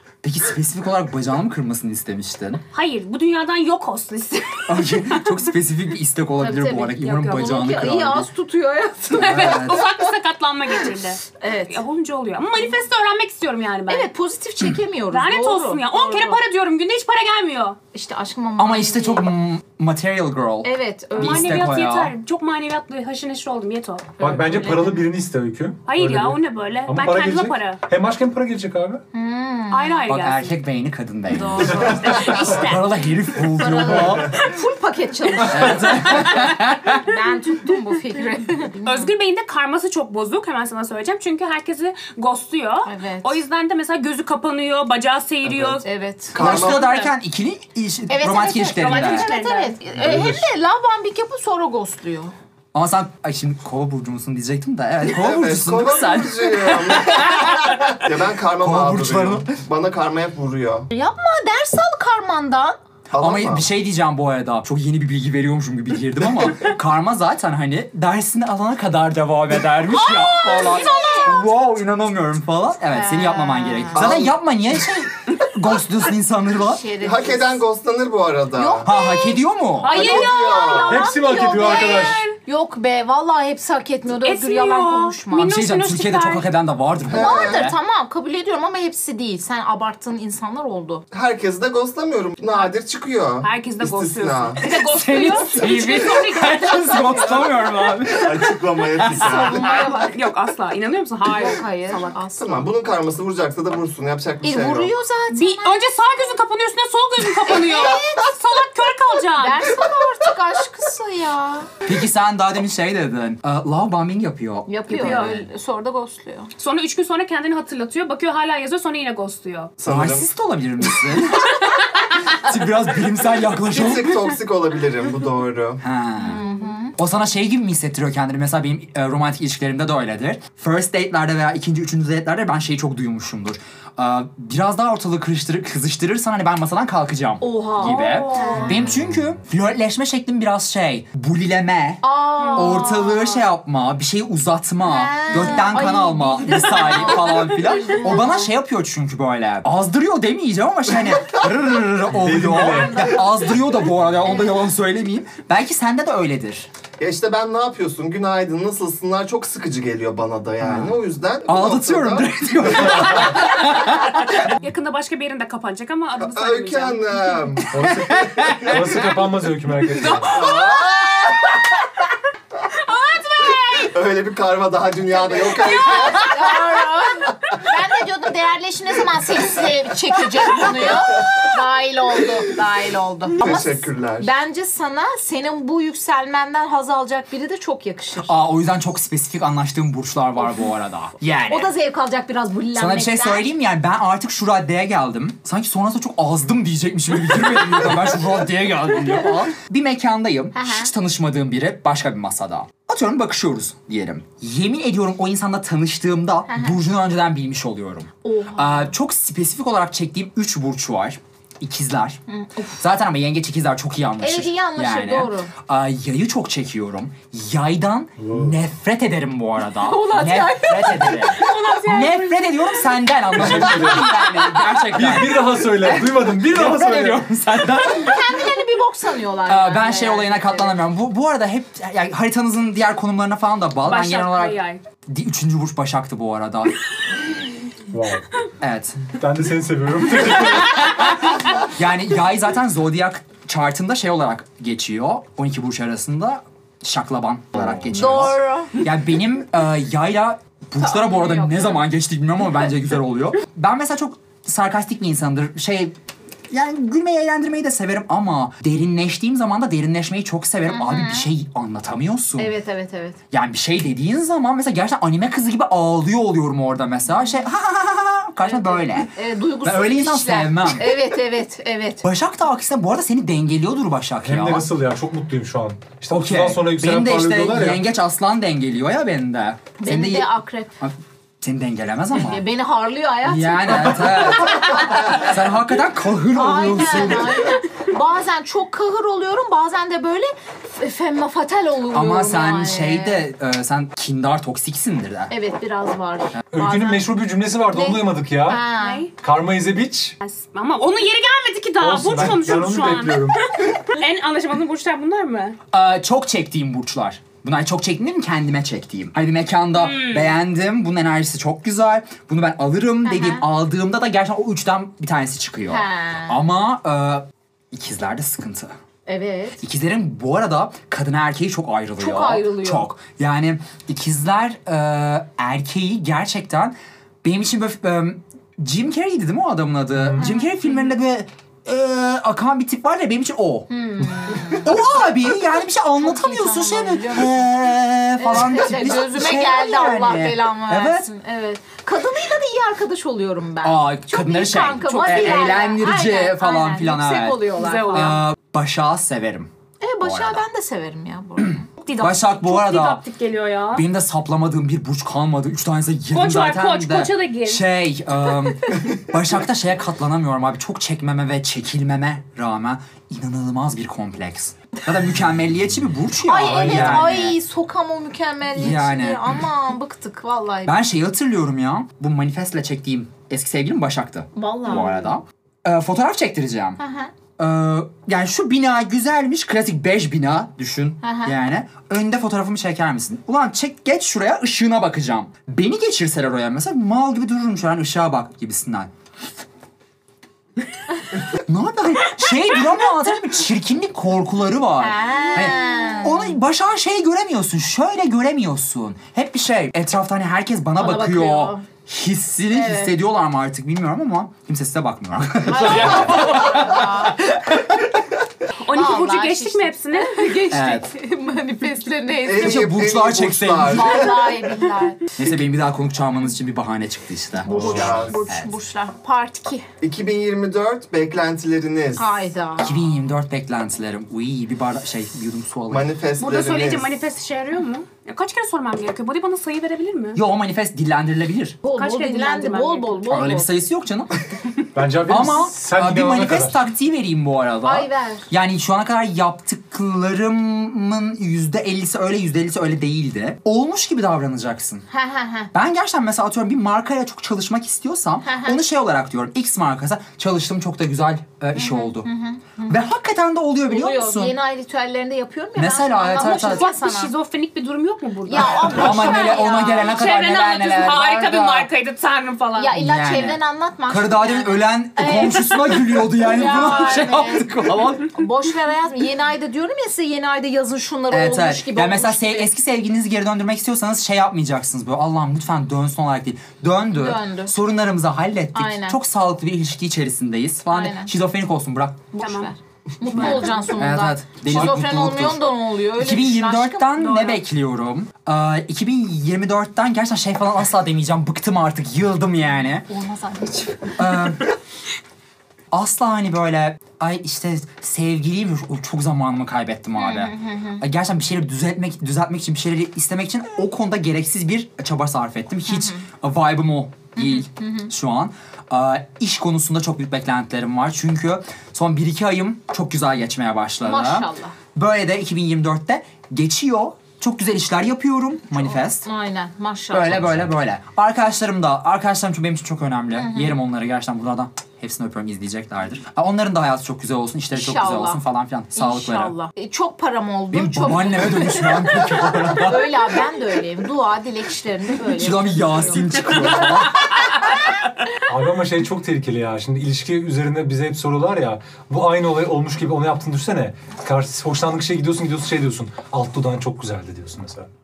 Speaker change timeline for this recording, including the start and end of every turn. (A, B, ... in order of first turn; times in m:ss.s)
0:00.2-0:02.6 A
0:02.7-0:05.2 B
0:04.7-0:08.3 A
0:06.4-0:09.8 C
0:09.1-0:14.1 B
0:09.2-0:09.8 A
0:11.4-0:11.8 C
0:13.9-0:16.4 C
0:15.1-0:17.8 B
0:17.9-0:19.3 C
0:18.6-0:22.1 A
0:20.6-0:21.7 C
0:21.2-0:24.2 B
0:24.2-0:25.0 C
0:24.2-0:29.0 D
0:25.9-0:27.8 B
0:29.1-0:30.0 C
0:29.7-0:30.5 B
0:30.1-0:34.4 A
0:31.3-0:32.6 C
0:31.8-0:32.8 B
0:33.5-0:39.1 C
0:35.4-0:37.0 A
0:38.8-0:45.8 B
0:42.9-0:43.4 C
0:45.8-0:47.1 C
0:46.3-0:46.8 E
0:46.4-0:49.3 A
0:48.1-0:52.3 C
0:48.7-0:49.8 B
0:50.0-0:50.5 D
0:52.7-0:57.8 A
0:55.1-1:00.9 E
0:58.6-0:59.5 A
1:00.9-1:02.8 C
1:03.1-1:03.7 E
1:03.2-1:16.9 A
1:10.0-1:11.4 C
1:10.2-1:11.3 B
1:12.9-1:14.3 C
1:14.0-1:14.3 E
1:16.6-1:17.6 C
1:17.0-1:18.9 E
1:18.5-1:25.5 C
1:18.8-1:20.0 A
1:19.8-1:22.4 B
1:19.9-1:21.0 E
1:20.9-1:22.2 D
1:24.2-1:26.5 B
1:25.4-1:27.8 A
1:27.1-1:27.6 E
1:27.1-1:31.0 C
1:31.1-1:34.6 E
1:33.4-1:37.3 B
1:34.6-1:39.5 A
1:36.8-1:37.4 C
1:38.1-1:39.8 E
1:39.2-1:40.2 C
1:39.3-1:42.2 B
1:41.2-1:42.7 C
1:42.4-1:44.9 E
1:44.4-1:45.9 C
1:45.3-1:49.7 B
1:47.5-1:48.4 C
1:49.3-1:51.7 C
1:51.9-1:55.4 A
1:54.7-1:56.5 C
1:54.9-1:55.4 B
1:56.6-1:59.7 B
1:59.8-2:00.3 E
1:59.9-2:04.3 A
2:03.6-2:05.8 E
2:05.8-2:06.4 A
2:06.2-2:07.0 C
2:07.0-2:36.7 A
2:17.4-2:18.9 C
2:17.8-2:18.8 B
2:22.0-2:23.4 C
2:22.4-2:22.8 B
2:24.8-2:28.5 C
2:32.1-2:33.2 D
2:37.0-2:43.0 E
2:40.6-2:44.5 A
2:44.4-2:47.2 B
2:46.2-2:48.6 E
2:47.7-2:50.4 D
2:47.8-2:48.9 A
2:50.0-2:50.7 B
2:50.3-2:51.6 E
2:52.7-2:54.0 B
2:53.8-2:56.4 E
2:55.4-2:56.4 B
2:55.6-3:08.3 C
3:03.4-3:04.3 E
3:08.2-3:11.7 A
3:11.5-3:13.5 C
3:12.7-3:32.2 A
3:20.6-3:20.9 C
3:26.5-3:26.8 C
3:28.2-3:28.9 C
3:32.3-3:32.8 C
3:32.8-3:48.4 A
3:34.2-3:35.5 C
3:38.2-3:38.5 D
3:39.8-3:42.1 C
3:41.4-3:42.7 B
3:43.3-3:44.2 D
3:44.9-3:47.3 D
3:47.8-3:50.8 C
3:49.5-3:56.8 A
3:53.8-3:54.8 B
3:57.9-3:58.2 D
3:58.6-3:59.0 A
3:59.1-4:00.8 D
4:00.6-4:16.0 A
4:07.7-4:08.8 C
4:10.8-4:11.8 C
4:16.5-4:22.5 A
4:20.7-4:21.3 C
4:22.4-4:23.2 C
4:23.3-4:31.0 A
4:28.4-4:32.0 C
4:32.0-4:34.7 A
4:34.2-4:37.8 D
4:36.1-4:42.4 A
4:39.8-4:40.7 C
4:42.1-4:44.3 C
4:43.2-4:47.6 A
4:46.3-4:53.3 C
4:51.9-4:55.3 A
4:55.3-4:57.1 C
4:56.5-4:58.6 D
4:57.7-4:59.0 C
4:58.8-4:59.1 B
4:59.2-5:00.2 D
5:00.2-5:05.6 B
5:01.8-5:03.4 D
5:05.7-5:18.7 A
5:09.8-5:10.3 B
5:13.0-5:13.4 C
5:15.7-5:16.4 C
5:19.1-5:19.6 C
5:19.6-5:33.7 A
5:22.0-5:22.9 C
5:30.2-5:30.5 C
5:33.7-5:34.9 C
5:34.6-5:41.1 A
5:36.0-5:37.4 C
5:38.2-5:48.2 C
5:43.6-5:49.5 A
5:47.6-5:48.2 B
5:49.8-5:51.7 C
5:50.0-5:50.4 A
5:51.4-5:53.0 A
5:51.8-5:53.8 B
5:53.7-6:07.4 A
5:56.1-5:57.6 B
6:06.3-6:10.8 C
6:08.6-6:09.4 A
6:10.7-6:16.8 A
6:14.3-6:15.2 C
6:16.8-6:17.1 C
6:17.4-6:28.9 A
6:21.0-6:21.4 C
6:31.4-6:47.8 A
6:34.8-6:36.4 C
6:40.8-6:41.6 C
6:42.5-6:43.0 C
6:45.5-6:47.2 C
6:48.6-6:50.3 B
6:48.7-6:52.8 C
6:50.5-6:50.9 A
6:52.2-6:54.3 E
6:52.4-6:54.1 A
6:53.6-6:55.1 C
6:55.2-6:58.6 A
6:57.4-6:59.7 C
6:57.5-6:58.2 E
6:59.8-7:02.1 E
7:02.0-7:02.8 C
7:02.6-7:05.9 A
7:05.7-7:06.9 E
7:06.2-7:10.2 B
7:10.2-7:11.6 A
7:11.6-7:13.5 C
7:11.8-7:13.1 B
7:13.1-7:14.1 A
7:14.8-7:16.6 D
7:15.1-7:24.8 A
7:17.6-7:18.3 C
7:24.9-7:25.5 C
7:25.5-7:32.1 A
7:28.2-7:28.6 C
7:31.6-7:32.8 C
7:32.7-7:34.4 A
7:33.7-7:37.1 C
7:35.6-7:36.7 A
7:36.2-7:42.8 B
7:38.3-7:40.0 C
7:38.6-7:41.7 A
7:42.6-7:47.5 C
7:42.7-7:48.1 A
7:48.1-7:52.5 C
7:51.1-8:02.1 A
7:57.0-7:57.5 C
7:58.6-7:59.0 C
8:00.7-8:01.1 C
8:02.1-8:07.4 C
8:02.2-8:02.5 B
8:03.1-8:03.6 B
8:03.1-8:12.9 A
8:12.8-8:14.0 C
8:14.0-8:14.5 A
8:15.7-8:39.1 A
8:20.0-8:20.8 C
8:25.7-8:26.0 C
8:27.2-8:27.9 C
8:33.8-8:34.6 C
8:38.6-8:40.3 C
8:39.9-8:49.3 A
8:43.1-8:43.6 C
8:47.5-8:48.2 C
8:48.8-8:56.1 C
8:50.5-8:53.1 A
8:55.1-8:57.0 A
8:58.3-9:07.7 D